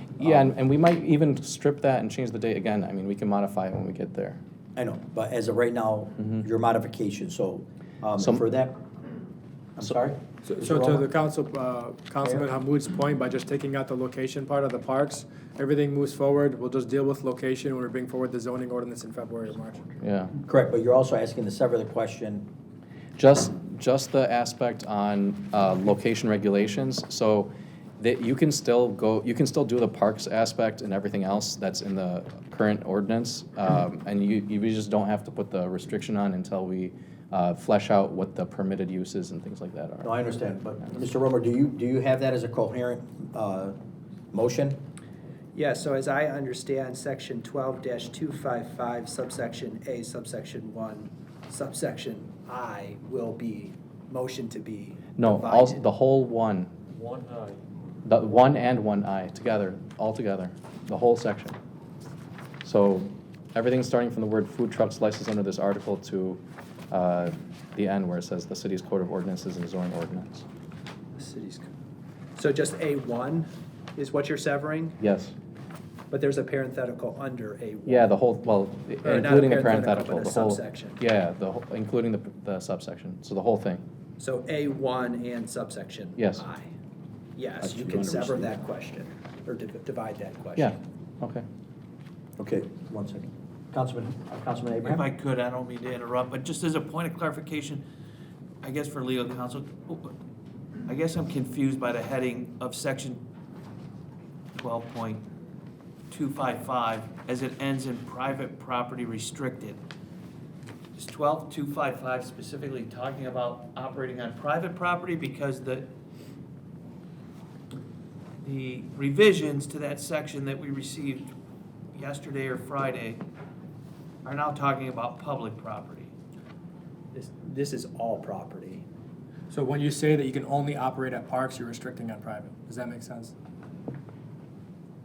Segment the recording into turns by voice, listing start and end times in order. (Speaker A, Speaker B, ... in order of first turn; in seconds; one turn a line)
Speaker A: 0.2-4.4
Speaker B: 0.2-0.5
Speaker B: 4.8-8.8
Speaker B: 9.8-11.0
Speaker C: 10.5-20.0
Speaker A: 20.0-20.3
Speaker B: 20.4-22.5
Speaker A: 23.2-40.1
Speaker B: 40.0-43.8
Speaker B: 44.3-44.8
Speaker D: 45.5-55.8
Speaker A: 55.2-56.7
Speaker E: 56.9-57.6
Speaker A: 58.0-61.6
Speaker A: 62.6-70.5
Speaker D: 71.1-71.7
Speaker D: 72.3-75.0
Speaker A: 75.0-75.3
Speaker D: 76.1-78.1
Speaker A: 77.8-83.8
Speaker D: 79.0-81.0
Speaker D: 84.2-86.7
Speaker A: 86.2-86.4
Speaker D: 87.4-90.8
Speaker B: 87.6-88.6
Speaker A: 90.6-91.4
Speaker B: 92.4-95.0
Speaker E: 94.8-97.8
Speaker E: 98.6-100.1
Speaker E: 100.8-103.2
Speaker E: 104.5-105.2
Speaker E: 106.1-109.8
Speaker E: 111.0-115.9
Speaker E: 118.4-121.3
Speaker E: 121.9-123.2
Speaker E: 124.2-126.1
Speaker D: 127.1-128.8
Speaker C: 129.5-133.3